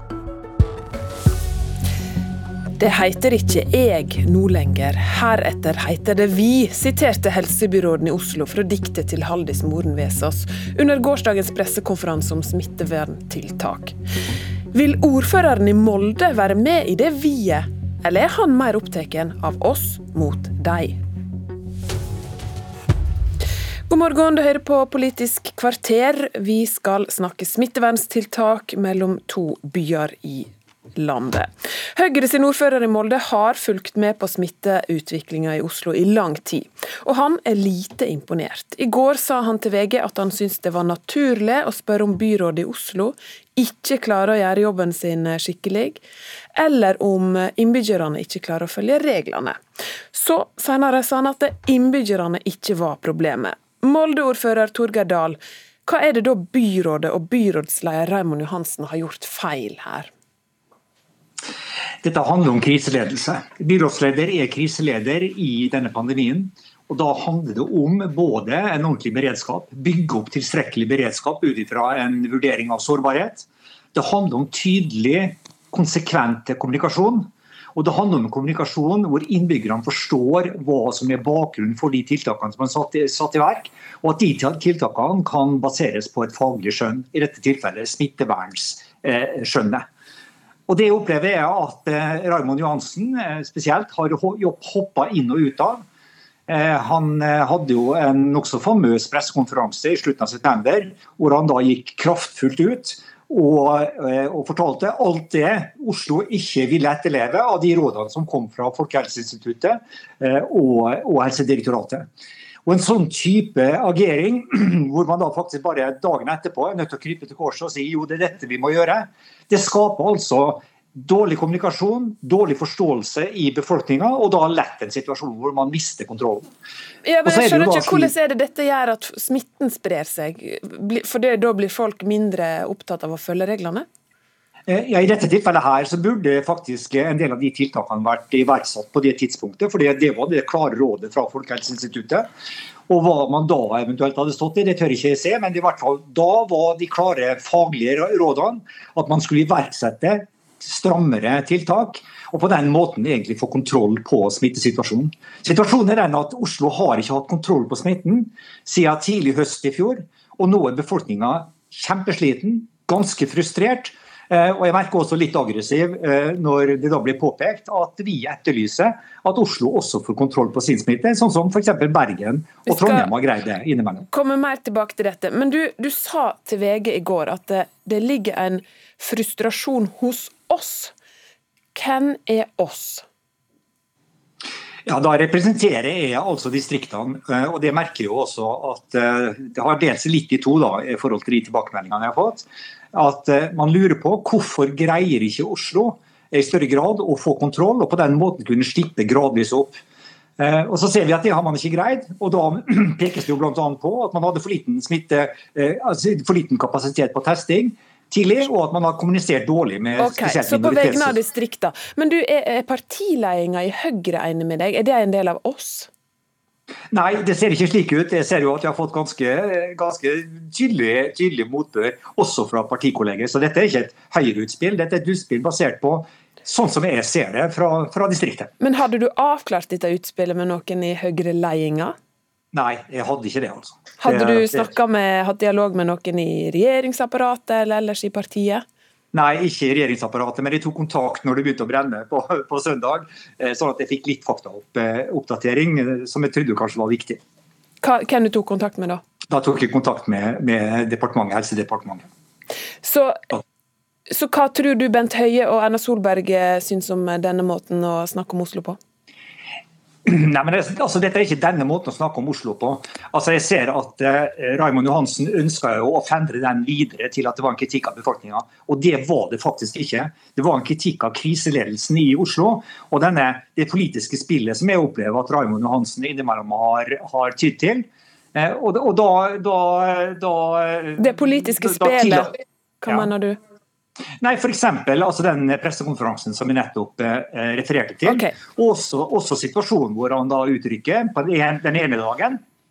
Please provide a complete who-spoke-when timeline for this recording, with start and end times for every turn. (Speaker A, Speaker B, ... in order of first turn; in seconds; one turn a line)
Speaker A: 2.8-13.9
Speaker A: 14.7-21.0
Speaker A: 23.9-46.0
Speaker A: 46.6-49.6
Speaker A: 50.1-60.1
Speaker B: 62.0-89.8
Speaker B: 90.7-95.8
Speaker B: 96.5-112.1
Speaker B: 112.7-126.5
Speaker A: 127.0-133.9
Speaker B: 127.2-128.1
Speaker B: 134.7-142.3
Speaker B: 142.9-174.1
Speaker A: 172.7-173.1
Speaker A: 174.1-180.9
Speaker A: 181.8-183.1
Speaker B: 184.9-199.8
Speaker B: 200.4-211.2
Speaker A: 210.0-215.9
Speaker B: 216.9-228.5
Speaker A: 228.6-231.9
Speaker B: 232.5-234.7
Speaker A: 234.0-238.6
Speaker B: 239.1-247.2
Speaker A: 247.8-249.0
Speaker B: 249.3-252.1
Speaker A: 252.8-253.2
Speaker A: 254.1-258.8
Speaker B: 260.1-282.3
Speaker A: 281.0-283.4
Speaker B: 284.2-292.4
Speaker A: 288.1-288.4